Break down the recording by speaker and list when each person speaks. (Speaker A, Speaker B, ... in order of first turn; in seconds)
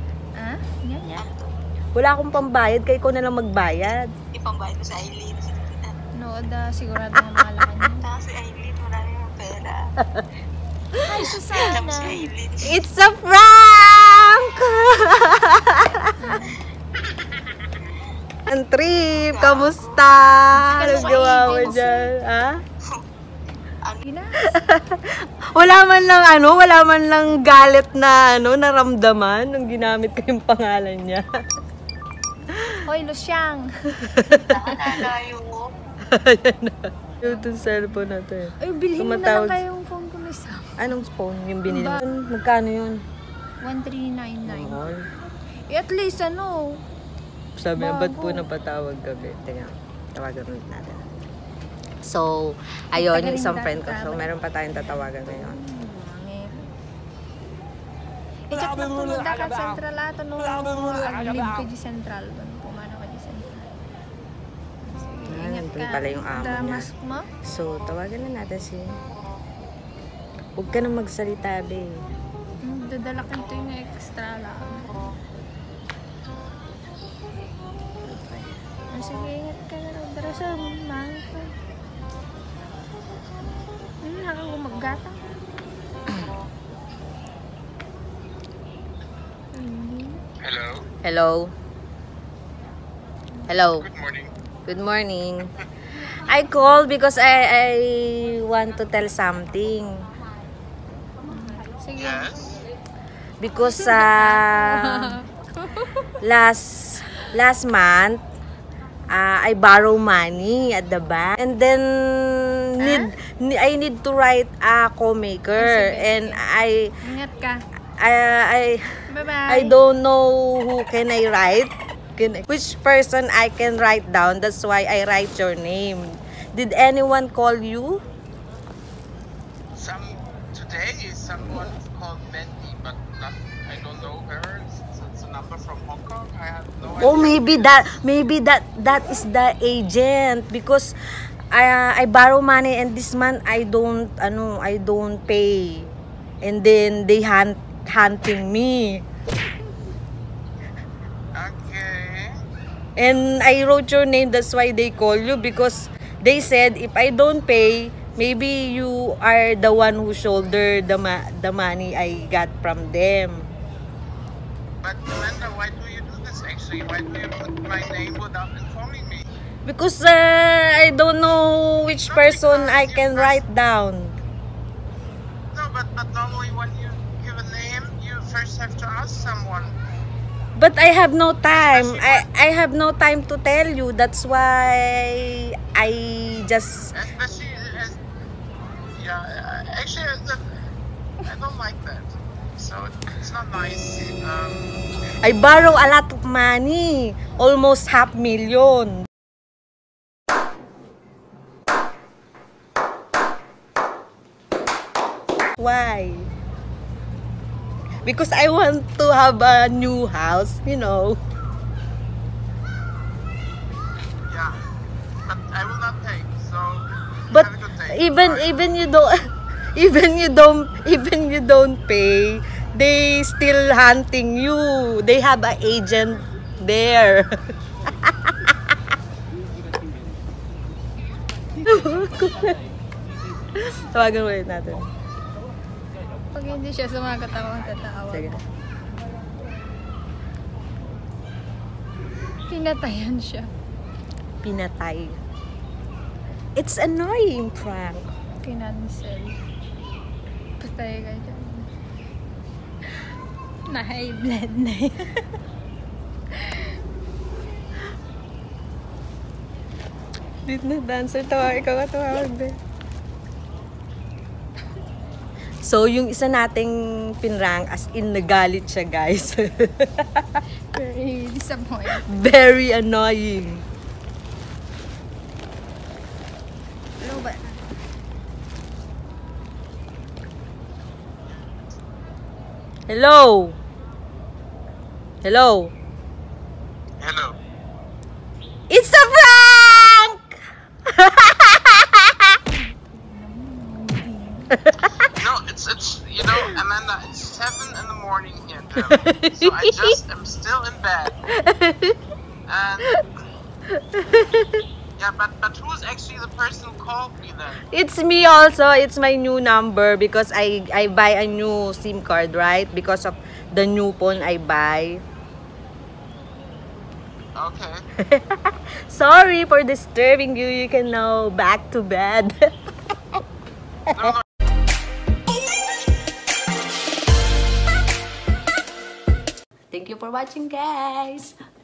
Speaker A: 0.3-1.3, 6.1-8.1, 11.0-12.3, 16.2-16.6, 20.6-22.1, 24.1-24.6, 32.9-33.7, 37.3-40.8, 41.7-42.0, 43.6-44.8, 45.7-46.8, 47.8-48.5, 52.9-56.7, 58.5-63.7, 64.8-67.3, 72.6-75.2, 78.1-81.5, 84.0-85.2, 89.5-90.2, 101.2-102.5, 103.6-106.1, 112.8-113.1, 115.6-116.4, 117.0-117.6, 119.1-119.8, 236.3-238.4, 242.5-243.5, 248.4-249.4, 250.6-251.7, 253.7-255.2, 256.3-256.8, 270.7-272.1, 292.6-294.6
Speaker B: 1.2-1.5, 4.3-5.9, 8.0-9.8, 11.7-12.8, 19.2-20.1, 20.8-21.4, 34.5-35.7
Speaker C: 1.9-4.1, 7.2-7.5, 12.7-16.3, 18.5-22.6, 24.4-31.2, 32.5-32.8, 34.0-34.8, 36.1-39.6, 40.8-43.0, 44.5-45.0, 47.6-51.0, 52.0-55.6, 65.3-66.9, 67.4-69.0, 70.6-72.0, 91.0-91.5, 93.5-93.9, 94.7-100.0, 103.4-105.2, 106.2-108.2, 109.1-116.9, 118.0-118.8, 119.5-128.0, 137.0-140.9, 141.5-145.9, 146.4-149.0, 153.0-163.5, 169.7-174.2, 180.6-186.9, 195.2-199.1, 205.6-206.3, 208.1-211.2, 217.3-219.2, 219.8-227.3, 228.0-228.6, 231.6-232.6, 233.6-234.9, 237.5-238.4, 244.4-245.2, 246.6-248.1, 260.5-262.6, 265.6-270.4, 271.9-273.6, 277.0-277.4, 282.9-283.6, 285.2-285.7, 288.7-290.2, 290.9-292.4, 294.5-294.9, 298.9-300.0, 301.3-302.0, 303.7-304.6, 307.7-315.0, 318.0-322.3, 329.7-331.4
Speaker D: 90.4-90.9, 93.7-94.3, 102.0-102.6, 129.8-137.9, 151.3-152.4, 164.8-169.3, 172.1-173.4, 175.5-179.8, 181.5-182.3, 186.9-188.0, 188.9-190.4, 191.2-194.9, 214.3-214.6, 215.3-218.5, 287.0-287.4, 295.1-301.2, 302.5-303.0, 305.0-307.6, 317.4-317.9, 323.9-324.2